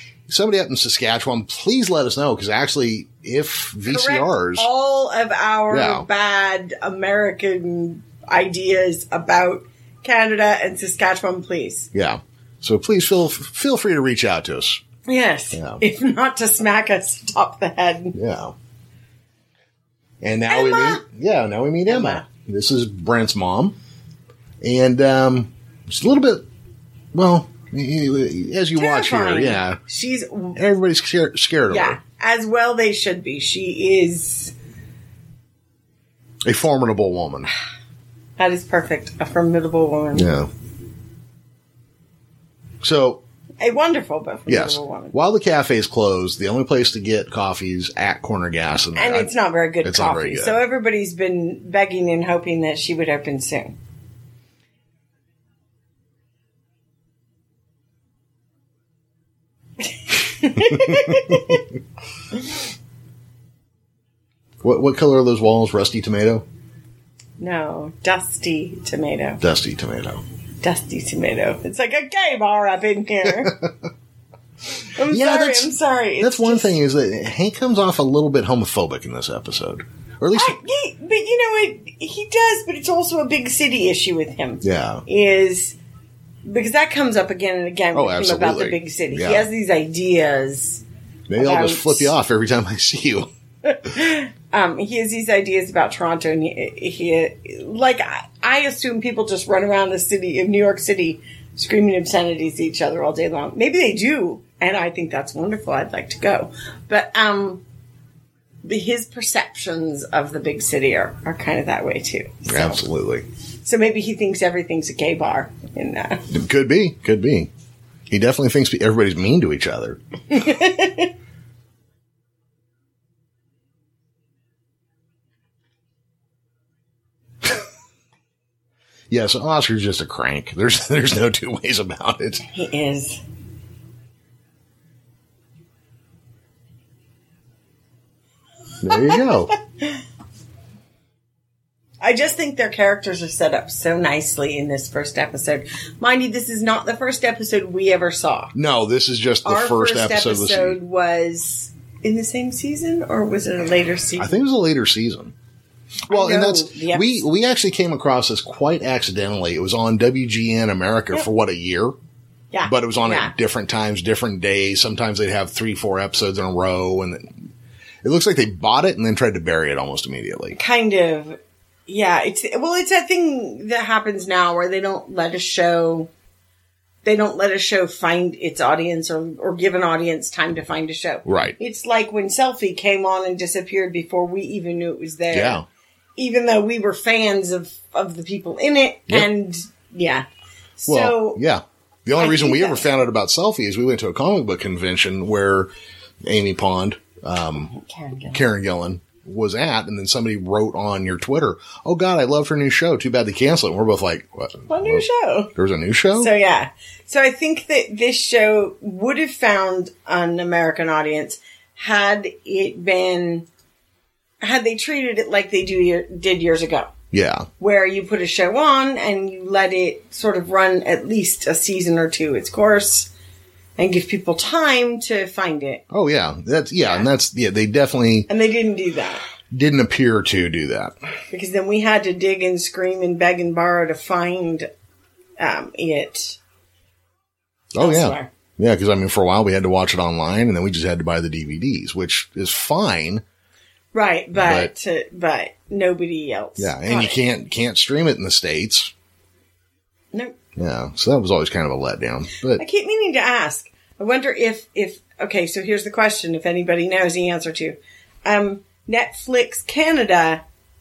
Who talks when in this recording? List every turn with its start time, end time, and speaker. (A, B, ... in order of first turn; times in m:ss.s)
0:00.3-0:04.7 A
0:03.9-0:11.9 B
0:05.7-0:06.1 A
0:11.9-0:14.8 A
0:15.1-0:18.2 B
0:15.5-0:15.8 A
0:18.1-0:18.5 A
0:20.2-0:23.8 A
0:20.5-0:21.0 B
0:21.9-0:22.2 B
0:24.6-0:26.4 A
0:27.1-0:29.8 A
0:28.8-0:30.6 B
0:30.6-0:32.0 A
0:31.7-0:34.6 B
0:36.4-0:37.5 A
0:38.4-0:40.3 B
0:40.1-0:40.5 A
0:42.8-0:43.2 A
0:43.6-0:45.2 B
0:44.5-0:50.6 A
0:49.0-0:53.8 B
1:00.0-1:01.6 B
1:00.6-1:01.4 A
1:04.6-1:06.4 A
1:07.4-1:09.4 B
1:09.4-1:10.2 A
1:10.6-1:13.5 B
1:13.3-1:13.7 A
1:15.0-1:16.8 B
1:15.1-1:20.6 A
1:20.3-1:25.8 B
1:24.6-1:25.0 A
1:26.4-1:30.8 B
1:27.9-1:29.5 A
1:31.3-1:33.3 A
1:31.4-1:32.1 B
1:33.7-1:47.6 B
1:48.6-1:52.8 B
1:52.5-1:53.2 A
1:53.6-1:56.3 B
1:56.3-1:57.5 A
1:58.1-2:00.0 A
2:00.3-2:01.1 B
2:09.1-2:12.5 A
2:12.4-2:13.2 B
2:18.8-2:19.5 A
2:18.9-2:20.0 B
2:22.0-2:28.5 B
2:28.5-2:30.8 A
2:29.4-2:34.3 B
2:34.2-2:35.3 A
2:36.1-2:42.0 A
2:36.1-2:37.2 B
2:42.5-2:43.3 B
2:42.6-2:47.5 A
2:48.0-2:50.6 A
2:50.6-2:56.1 B
2:57.0-3:05.6 B
3:01.2-3:01.6 A
3:05.3-3:05.6 A
3:06.2-3:10.3 B
3:10.8-3:11.4 B
3:10.9-3:15.7 A
3:12.2-3:12.9 B
3:16.2-3:17.7 A
3:17.7-3:18.4 B
3:18.3-3:26.3 A
3:24.7-3:25.5 B
3:26.2-3:33.5 B
3:34.4-3:36.9 B
3:37.1-3:37.5 A
3:37.6-3:43.1 B
3:43.8-3:45.8 B
3:45.9-3:48.3 A
3:46.8-3:47.1 B
3:48.3-3:49.2 B
3:49.5-3:51.0 A
3:51.3-3:54.7 B
3:55.4-3:56.4 B
3:57.8-4:03.2 A
3:57.8-3:58.3 B
4:03.9-4:07.2 B
4:04.3-4:04.7 A
4:06.6-4:08.9 A
4:10.6-4:12.6 A
4:12.6-4:20.4 B